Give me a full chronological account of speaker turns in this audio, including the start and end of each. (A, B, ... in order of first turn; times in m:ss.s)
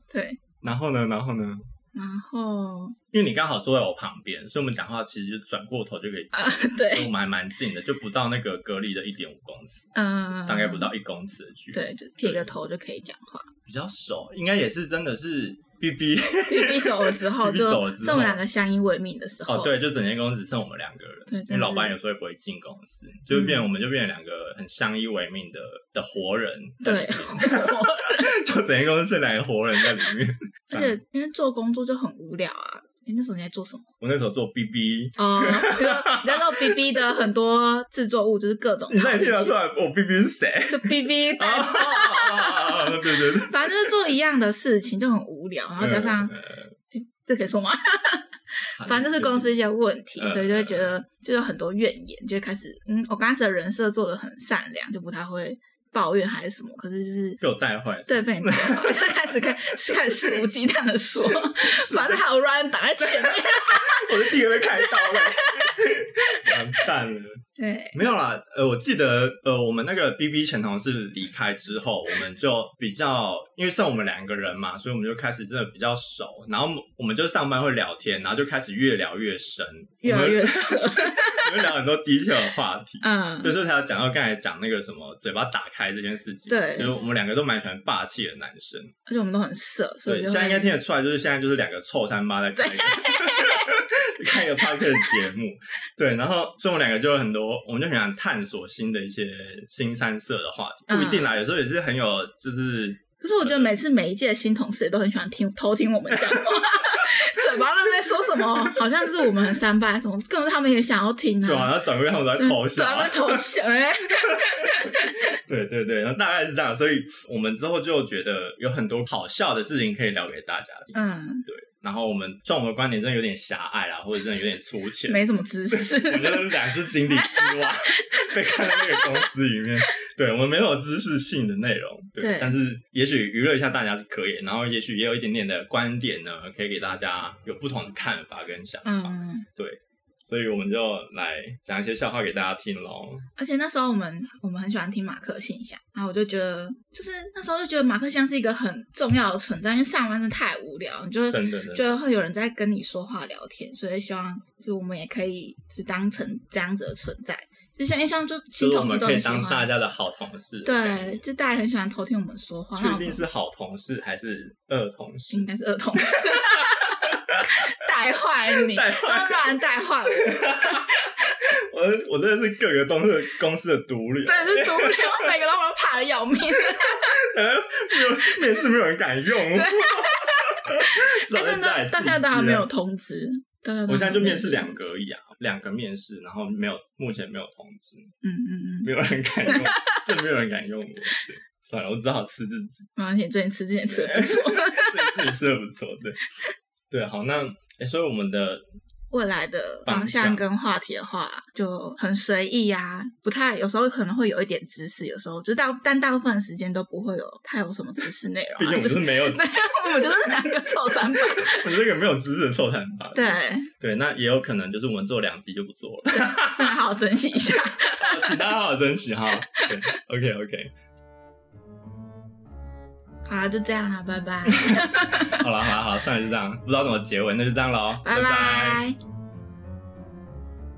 0:00.1-0:00.4 A
0:00.6-0:01.7 B
0:01.9-0:03.0 A
0:03.1-0:09.9 B
0:06.3-0:07.1 A
0:09.9-0:10.9 A
0:10.5-0:12.5 B
0:11.7-0:13.5 A
0:13.7-0:18.4 B
0:16.5-0:19.7 A
0:19.5-0:31.0 B
0:21.3-0:22.0 A
0:23.3-0:23.6 A
0:26.8-0:28.4 A
0:30.7-0:33.9 A
0:34.0-0:36.8 B
0:35.2-0:39.6 A
0:38.9-0:43.9 B
0:40.7-0:46.3 A
0:45.8-0:46.8 B
0:46.9-0:57.4 A
0:48.8-0:49.5 B
0:50.2-0:51.0 B
0:57.4-1:00.4 B
0:58.1-1:05.7 A
1:01.2-1:02.2 B
1:03.0-1:07.4 B
1:06.4-1:06.8 A
1:07.6-1:08.0 A
1:07.9-1:28.9 B
1:20.0-1:21.5 A
1:23.0-1:23.6 A
1:26.5-1:27.0 A
1:29.1-1:30.8 A
1:30.1-1:43.7 B
1:32.6-1:33.7 A
1:40.9-1:41.3 A
1:43.2-1:51.8 A
1:51.4-1:53.4 B
1:52.3-1:55.2 A
1:55.4-2:23.3 B
2:00.9-2:01.5 A
2:05.1-2:09.1 A
2:12.2-2:12.6 A
2:18.8-2:19.5 A
2:23.4-2:39.7 A
2:31.3-2:32.0 B
2:38.6-2:41.2 B
2:40.6-2:43.2 A
2:42.8-2:45.5 B
2:45.3-2:51.1 A
2:48.7-2:50.9 B
2:51.7-2:55.4 B
2:54.2-2:57.2 A
2:56.7-3:02.7 B
2:59.5-3:04.8 A
3:03.9-3:08.1 B
3:08.2-3:08.9 A
3:08.8-3:12.9 B
3:09.5-3:10.1 A
3:13.0-3:15.2 A
3:13.9-3:16.2 B
3:16.9-3:18.6 B
3:19.1-3:31.7 A
3:19.9-3:20.4 B
3:28.6-3:29.5 B
3:31.1-3:36.8 B
3:33.1-3:33.7 A
3:36.1-3:38.5 A
3:37.5-3:40.7 B
3:43.2-3:45.4 A
3:44.6-3:48.8 B
3:48.0-3:49.0 A